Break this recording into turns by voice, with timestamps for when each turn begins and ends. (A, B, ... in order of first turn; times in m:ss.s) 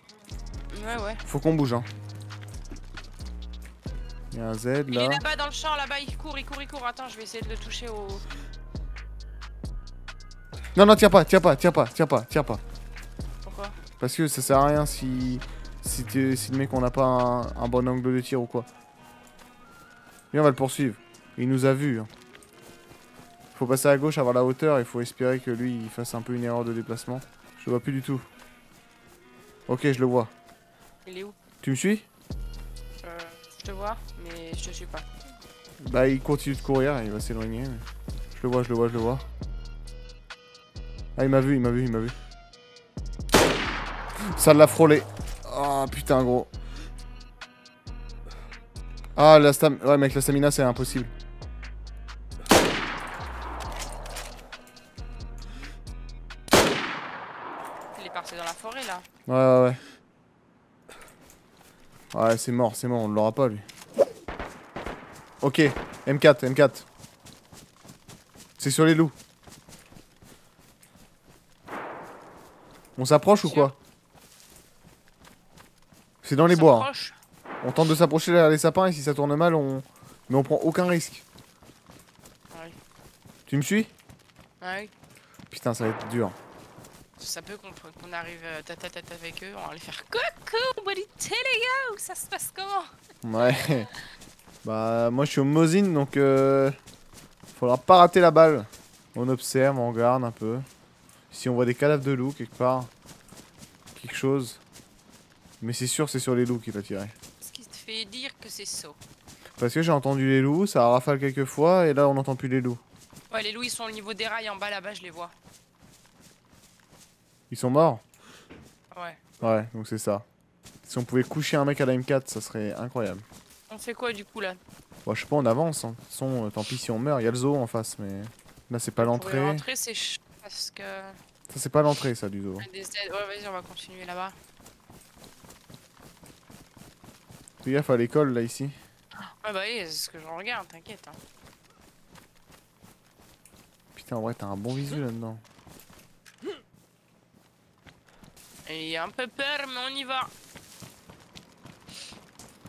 0:00.7-0:01.2 A
0:01.2-0:01.9 B
0:04.3-0:05.2 B
0:04.9-0:08.2 A
0:10.8-0:12.6 B
0:13.4-0:13.8 A
0:14.0-0:18.7 B
0:20.3-0:22.1 B
0:23.5-0:28.2 B
0:29.7-0:30.3 B
0:31.0-0:31.4 A
0:31.6-0:32.1 B
0:33.0-0:35.1 A
0:35.8-0:39.2 B
0:41.2-0:42.1 B
0:44.2-0:46.5 B
0:49.1-0:51.1 B
0:57.9-0:59.0 A
0:59.3-0:59.8 B
1:02.1-1:03.6 B
1:05.4-1:06.9 B
1:08.6-1:09.1 B
1:13.0-1:13.8 B
1:13.4-1:13.7 A
1:16.2-1:16.9 B
1:16.5-1:17.1 A
1:17.6-1:21.2 B
1:22.5-1:22.8 A
1:23.5-1:23.9 B
1:24.6-1:24.9 A
1:25.5-1:26.4 B
1:27.2-1:33.8 A
1:33.2-1:33.9 B
1:34.6-1:36.8 B
1:37.5-1:40.7 B
1:41.3-1:42.9 B
1:44.0-1:44.6 B
1:45.6-1:47.1 B
1:47.4-1:49.0 A
1:49.6-1:52.8 B
1:53.3-1:55.3 A
1:57.5-1:58.0 B
1:58.9-1:59.2 A
1:59.4-2:00.2 B
2:00.8-2:03.2 B
2:03.7-2:04.6 A
2:05.0-2:09.6 B
2:09.0-2:11.2 A
2:11.5-2:12.7 B
2:12.6-2:14.3 A
2:17.6-2:18.8 B
2:19.2-2:21.2 A
2:23.9-2:25.4 B
2:28.6-2:30.3 A